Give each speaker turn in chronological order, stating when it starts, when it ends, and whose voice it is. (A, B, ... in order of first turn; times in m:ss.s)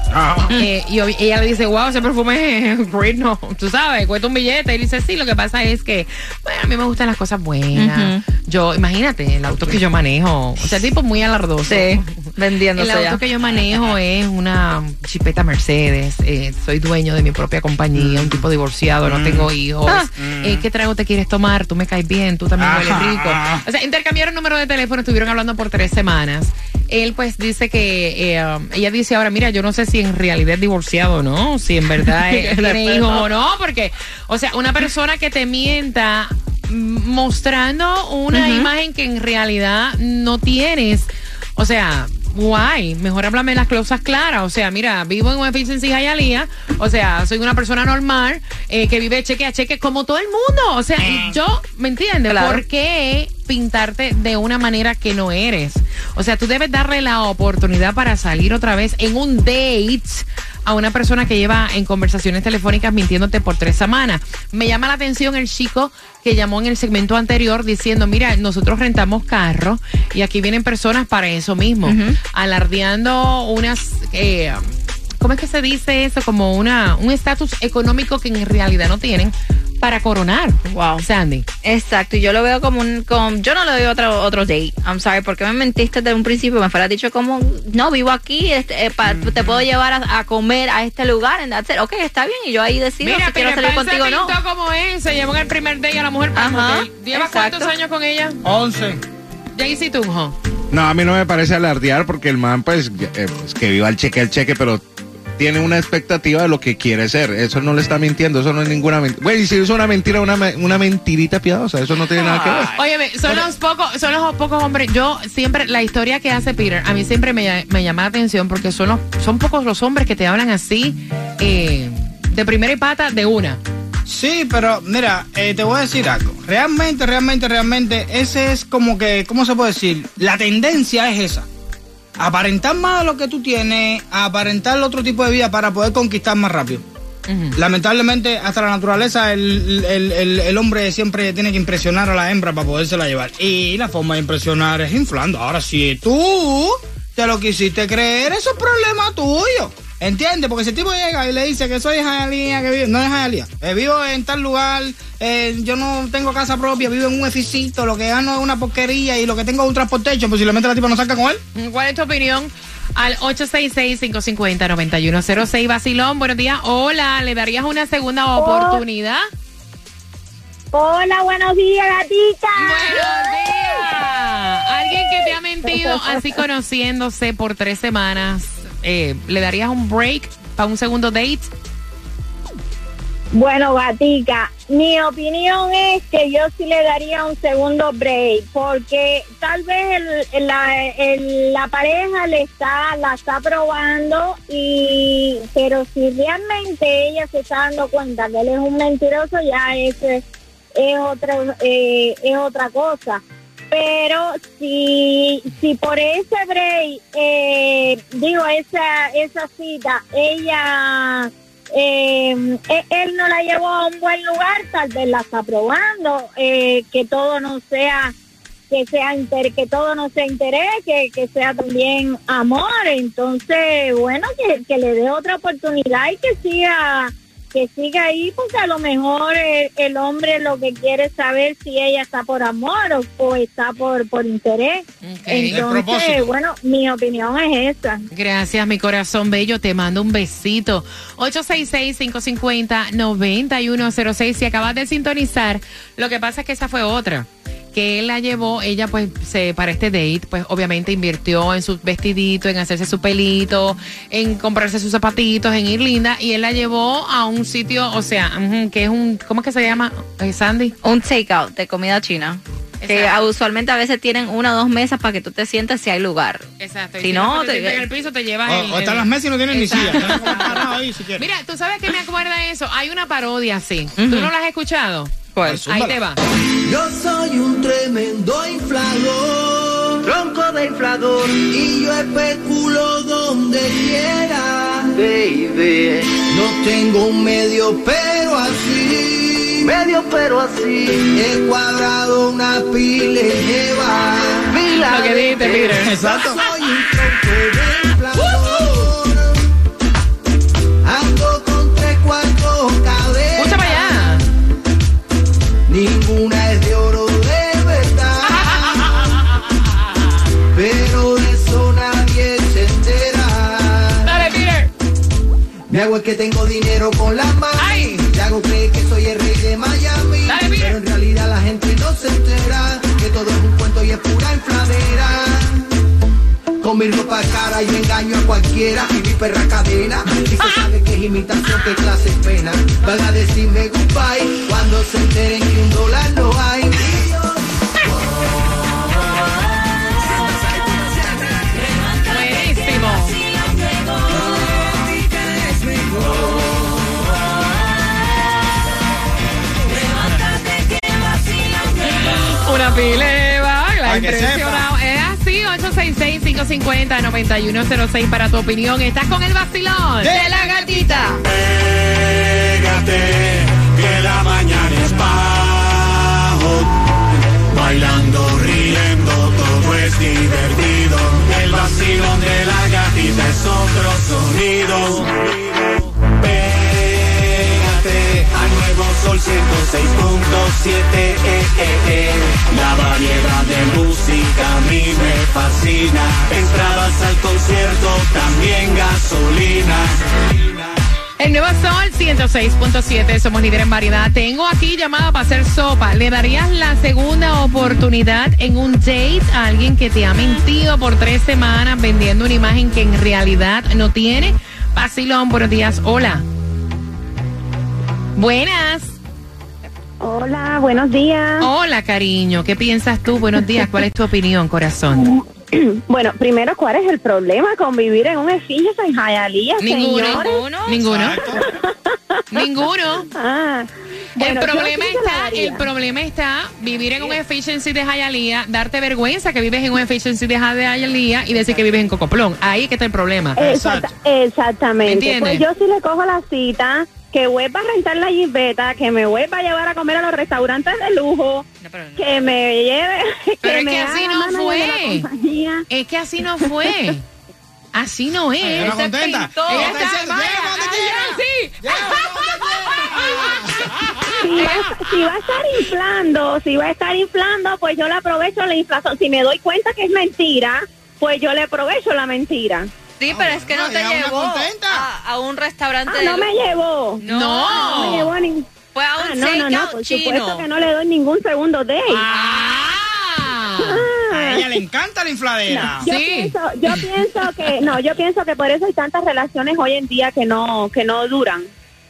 0:00.1-0:00.5 A
0:00.5-1:21.5 B
0:07.7-0:08.2 C
0:11.7-0:13.2 C
0:18.0-0:18.4 A
0:19.0-0:19.5 A
0:20.2-0:20.6 A
0:22.6-0:23.6 A
0:32.0-0:33.3 C
0:38.3-0:38.7 C
0:51.0-0:51.3 A
0:52.3-0:52.6 C
1:11.8-1:12.2 C
1:20.7-1:21.0 C
1:21.6-1:34.4 C
1:29.1-1:29.6 B
1:33.0-1:38.4 B
1:36.4-1:37.7 C
1:38.4-1:39.0 A
1:39.6-1:40.4 B
1:40.7-1:44.8 D
1:45.4-1:52.8 D
1:52.2-1:52.6 C
1:52.4-2:03.6 B
2:04.1-2:11.5 A
2:12.2-2:16.8 A
2:17.3-2:17.6 B
2:17.6-2:41.4 A
2:41.6-2:49.2 B
2:48.4-2:48.8 E
2:50.7-2:53.8 E
2:52.6-3:01.5 B
2:55.7-2:56.1 E
3:03.3-3:20.2 E
3:20.8-3:38.1 E
3:38.7-3:58.0 E
3:55.0-3:55.7 B
3:55.5-3:56.3 A
3:58.1-4:20.8 B
4:20.8-4:26.5 C
4:22.8-4:23.2 B
4:26.6-4:30.6 B
4:27.0-4:27.8 C
4:28.5-4:31.2 A
4:29.7-4:30.4 C
4:31.2-4:35.1 B
4:34.0-4:34.3 C
4:35.4-4:35.7 C
4:35.4-4:36.0 A
4:35.7-4:36.2 B
4:36.6-4:59.4 F
4:54.7-4:56.4 B
4:55.8-4:56.4 A
4:58.2-4:58.9 B
5:00.8-5:04.1 F
5:03.4-5:04.2 B
5:05.7-5:08.9 F
5:08.3-5:08.6 B
5:10.5-5:14.2 F
5:14.0-5:14.7 B
5:15.7-5:25.6 F
5:17.6-5:18.1 B
5:20.3-5:20.8 B
5:26.6-5:37.4 F
5:42.0-5:43.2 B
5:43.4-5:43.9 C
5:50.3-5:51.0 C
5:51.8-6:01.1 B
5:53.8-5:54.6 A
6:00.0-6:01.2 A
6:01.2-6:06.7 G
6:07.5-6:15.3 G
6:16.0-6:30.0 G
6:31.2-6:46.2 B
6:48.2-6:49.0 B
6:50.0-6:51.5 H
6:51.4-6:55.2 B
6:55.0-7:00.4 H
6:59.6-7:01.2 B
7:00.0-7:00.8 C
7:00.7-7:01.4 A
7:01.2-7:01.6 H
7:02.3-7:03.1 B
7:03.1-7:05.6 H
7:04.2-7:13.4 B
7:13.4-7:21.4 H
7:13.4-7:13.9 A
7:14.9-7:15.4 B
7:21.6-7:22.2 C
7:22.0-7:25.7 H
7:23.4-7:25.1 B
7:25.7-7:27.0 B
7:27.8-7:34.7 B
7:28.4-7:29.9 C
7:28.6-7:33.7 A
7:34.2-7:42.7 H
7:43.0-7:46.3 C
7:43.1-7:44.9 A
7:45.9-7:48.5 H
7:47.0-7:48.1 B
7:47.0-7:48.1 C
7:48.7-7:50.5 C
7:49.0-7:52.1 H
7:51.9-7:53.8 B
7:53.6-7:54.6 H
7:54.1-7:55.9 A
7:55.5-8:01.5 H
7:55.8-7:56.8 B